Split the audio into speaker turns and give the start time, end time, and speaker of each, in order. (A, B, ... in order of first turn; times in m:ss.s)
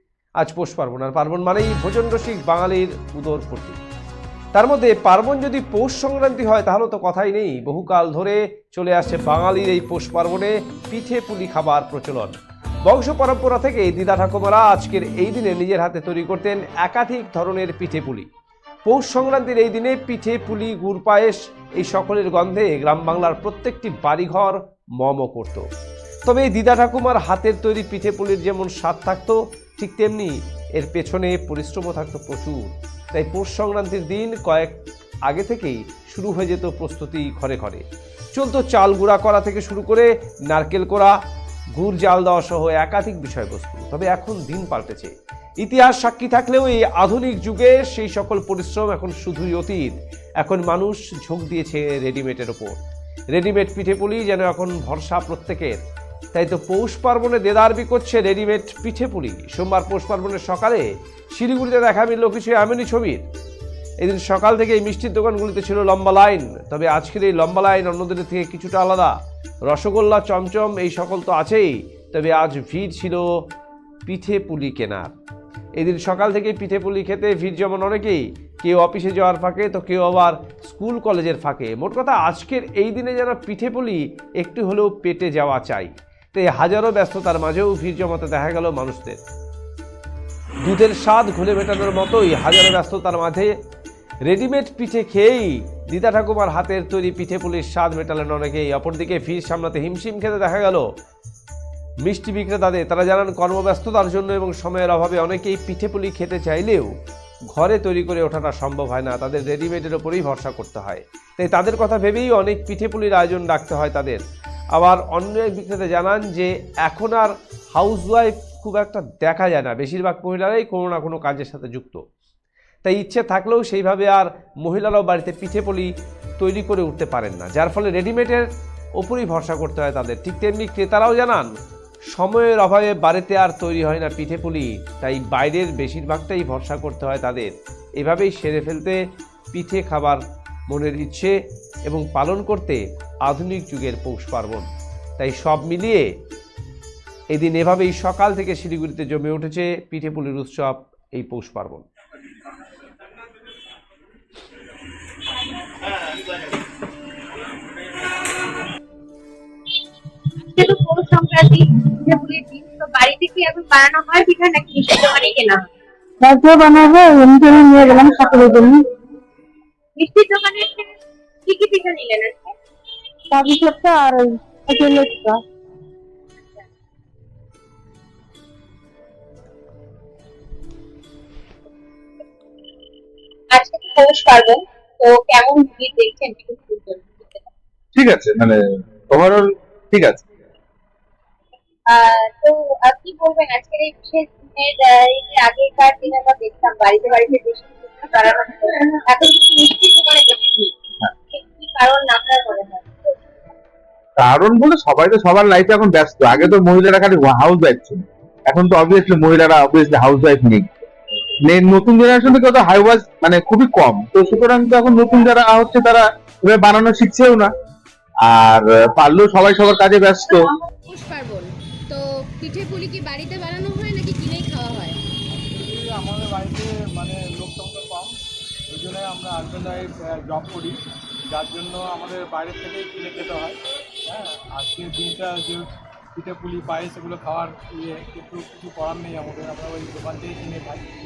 0:00.4-0:03.8 A
0:04.5-0:18.3 A
0:18.8-0:25.6 A
0:26.2-0:34.8 A
0:35.3-0:41.2 A
0:41.7-0:52.8 A
0:53.3-0:55.8 A
0:56.3-1:03.2 A
1:04.0-1:09.2 A
1:09.7-1:13.3 A
1:14.0-1:15.1 A
1:15.8-1:29.2 A
1:30.6-1:33.6 A
1:34.2-1:40.9 A
1:42.0-1:46.9 A
1:47.5-2:02.0 A
2:02.8-2:11.5 A
2:12.1-2:19.0 A
2:19.5-2:21.4 A
2:21.9-2:24.7 A
2:25.2-2:26.1 A
2:27.3-2:31.8 A
2:40.5-2:45.6 B
2:46.2-2:48.7 C
2:48.4-2:48.6 B
2:50.0-2:50.9 B
2:51.4-2:52.5 B
2:53.3-2:55.4 C
3:03.5-3:07.5 B
3:07.9-3:08.6 D
3:09.1-3:10.2 D
3:11.9-3:20.7 B
3:21.3-3:23.2 B
3:24.2-3:30.7 D
3:31.5-3:37.5 D
3:38.2-3:40.5 D
3:40.8-3:45.0 E
3:45.3-3:48.1 F
3:48.7-3:50.7 F
3:51.3-3:53.6 F
3:54.1-3:55.6 F
3:56.2-4:00.8 F